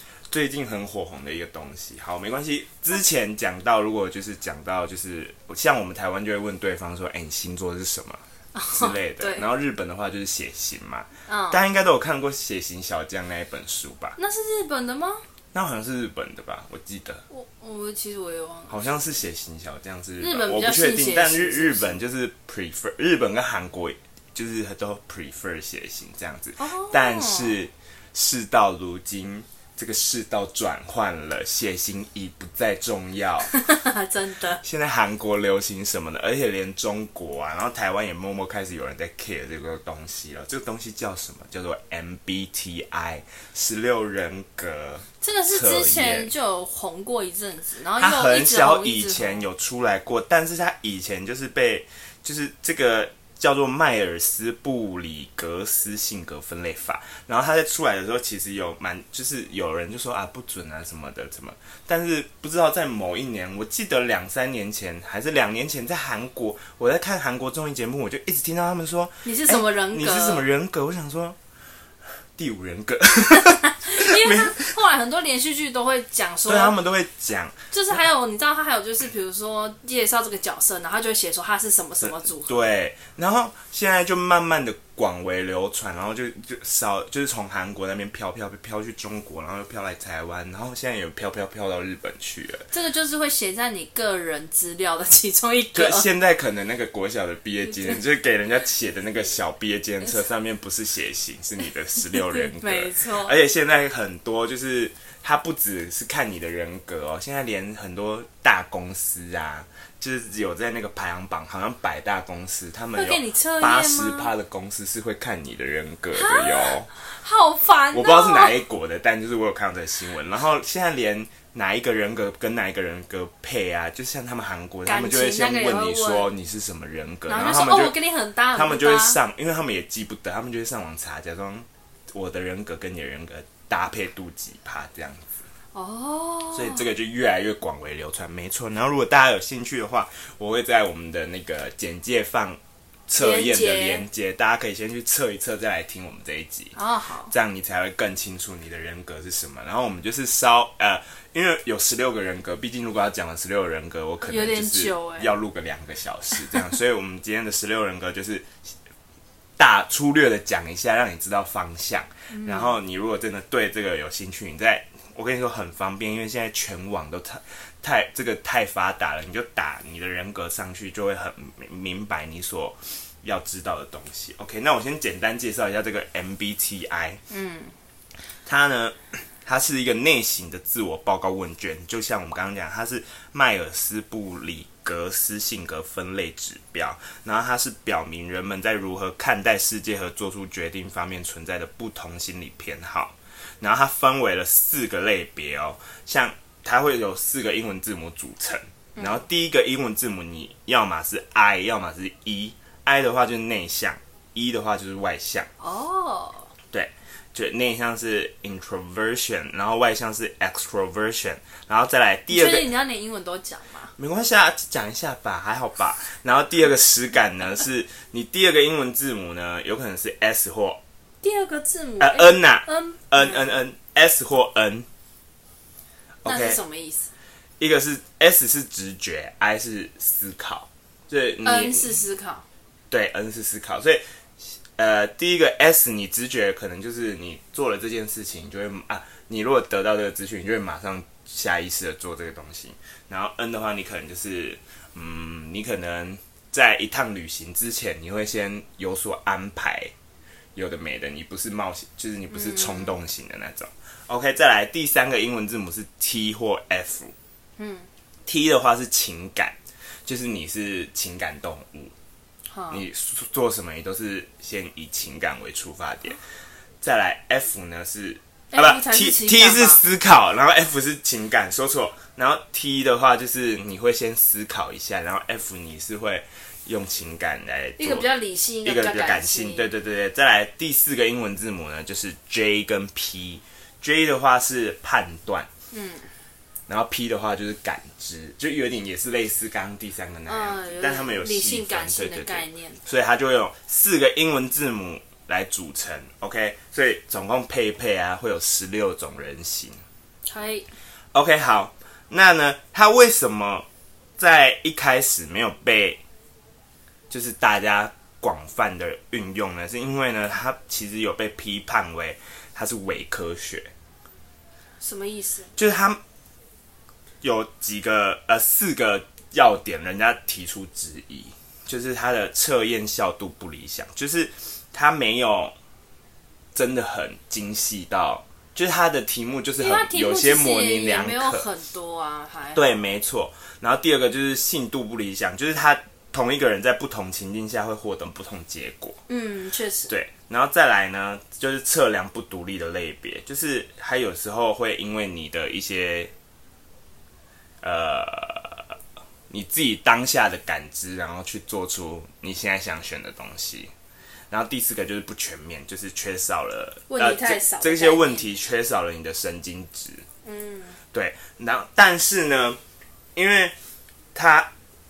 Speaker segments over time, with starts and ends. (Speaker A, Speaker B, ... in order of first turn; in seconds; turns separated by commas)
Speaker A: 0.3-14.2, Speaker B: 8.5-9.5, Speaker B: 11.3-11.6, Speaker B: 14.2-15.2, Speaker A: 15.5-17.2, Speaker B: 17.3-19.1, Speaker A: 18.7-33.5, Speaker B: 20.2-22.0, Speaker B: 26.6-27.5, Speaker B: 33.5-34.6, Speaker A: 34.6-46.3, Speaker B: 45.2-49.4, Speaker A: 48.0-71.4, Speaker B: 69.2-70.4, Speaker A: 72.3-74.7, Speaker B: 73.3-76.7, Speaker A: 76.5-77.6, Speaker B: 77.7-82.5, Speaker A: 82.0-92.7, Speaker B: 92.7-96.1, Speaker A: 95.7-116.9, Speaker B: 97.8-98.0, Speaker B: 102.1-103.3, Speaker B: 112.9-114.3, Speaker B: 116.1-118.6, Speaker A: 117.9-128.0, Speaker B: 124.8-126.3, Speaker B: 127.3-129.2, Speaker A: 128.5-135.4, Speaker B: 135.7-136.9, Speaker A: 136.5-158.5, Speaker B: 143.1-144.1, Speaker B: 146.7-147.3, Speaker B: 154.2-155.3, Speaker A: 159.6-177.2, Speaker B: 162.3-162.8, Speaker B: 177.3-177.8, Speaker A: 178.4-205.5, Speaker B: 198.9-199.2, Speaker B: 205.6-206.5, Speaker A: 206.7-212.7, Speaker B: 212.3-213.9, Speaker A: 214.0-220.8, Speaker B: 221.2-223.5, Speaker A: 222.0-224.8, Speaker A: 226.2-226.6, Speaker B: 226.2-227.1, Speaker A: 227.6-232.0, Speaker B: 231.4-232.4, Speaker A: 232.9-234.0, Speaker A: 234.5-249.9, Speaker A: 250.5-257.1, Speaker B: 252.3-252.9, Speaker B: 257.6-257.9, Speaker A: 258.2-261.9, Speaker B: 262.5-262.8, Speaker A: 262.7-266.2, Speaker A: 266.8-278.1, Speaker B: 268.5-269.8, Speaker B: 277.8-279.7, Speaker A: 278.6-285.5, Speaker B: 285.7-286.1, Speaker A: 286.7-299.8, Speaker B: 290.3-292.8, Speaker B: 300.2-300.7, Speaker A: 301.1-303.6, Speaker A: 304.2-306.0, Speaker A: 307.1-313.7, Speaker B: 314.8-315.5, Speaker A: 315.6-316.0, Speaker A: 317.2-325.5, Speaker A: 326.5-331.4, Speaker B: 329.6-332.8, Speaker A: 332.5-339.0, Speaker B: 339.1-339.9, Speaker A: 339.9-346.1, Speaker A: 347.6-348.7, Speaker A: 349.3-353.7, Speaker A: 354.3-360.1, Speaker B: 356.9-358.3, Speaker B: 360.2-360.8, Speaker A: 360.9-362.6, Speaker A: 363.1-363.5, Speaker A: 364.1-364.5